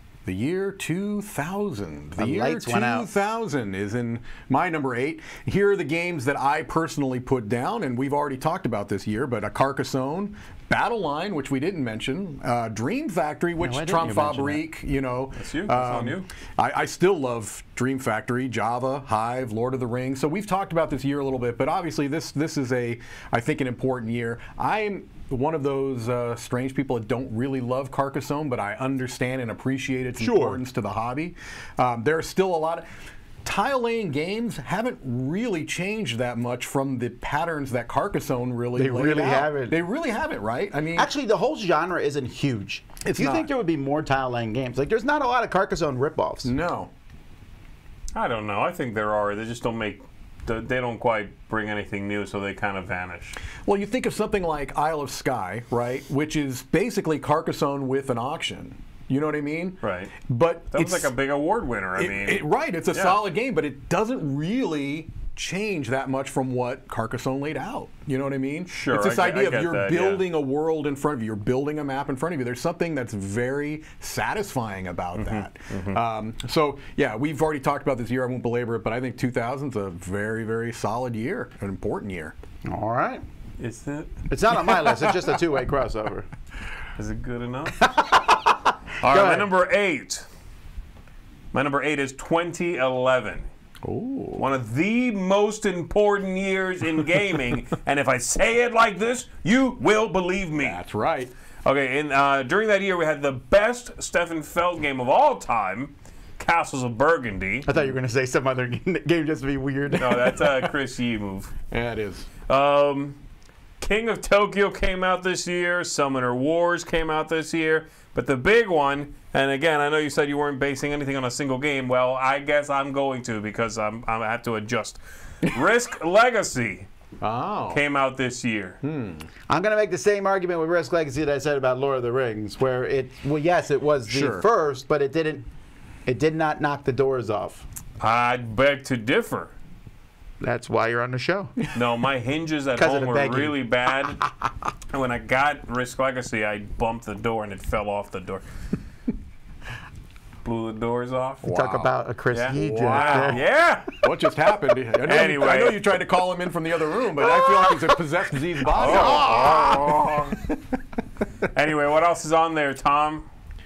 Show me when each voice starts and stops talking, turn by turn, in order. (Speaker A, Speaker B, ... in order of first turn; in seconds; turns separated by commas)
Speaker A: 0.2-32.9, Speaker B: 2.2-3.1, Speaker B: 13.6-14.6, Speaker C: 15.3-16.3, Speaker B: 30.2-30.6, Speaker A: 33.4-41.1, Speaker B: 38.7-39.8, Speaker B: 40.9-46.5, Speaker A: 43.0-43.5, Speaker A: 46.4-46.9, Speaker C: 48.1-53.4, Speaker A: 53.6-61.1, Speaker C: 59.8-60.1, Speaker C: 60.7-63.2, Speaker A: 62.0-82.3, Speaker C: 68.7-70.2, Speaker C: 75.2-76.0, Speaker B: 82.7-83.2, Speaker C: 83.6-84.3, Speaker B: 84.3-86.3, Speaker C: 87.0-88.0, Speaker B: 87.8-89.5, Speaker C: 89.0-90.3, Speaker C: 91.5-93.5, Speaker A: 93.8-94.5, Speaker C: 94.3-100.8, Speaker A: 100.6-101.3, Speaker C: 101.6-107.7, Speaker B: 107.7-110.3, Speaker C: 109.9-111.5, Speaker A: 110.0-110.7, Speaker A: 111.7-112.3, Speaker C: 112.5-113.2, Speaker C: 113.8-126.9, Speaker A: 127.2-127.8, Speaker C: 127.7-128.8, Speaker A: 128.8-129.3, Speaker B: 129.5-135.5, Speaker A: 134.1-134.4, Speaker B: 136.1-137.6, Speaker C: 138.0-139.5, Speaker B: 140.4-141.5, Speaker C: 141.7-144.2, Speaker B: 142.7-143.6, Speaker C: 144.9-148.4, Speaker C: 150.4-151.4, Speaker A: 151.4-151.9, Speaker B: 151.4-153.4, Speaker C: 152.3-154.0, Speaker A: 152.5-160.8, Speaker C: 154.9-155.8, Speaker B: 157.3-157.9, Speaker C: 158.7-160.4, Speaker B: 158.7-160.0, Speaker C: 161.4-163.2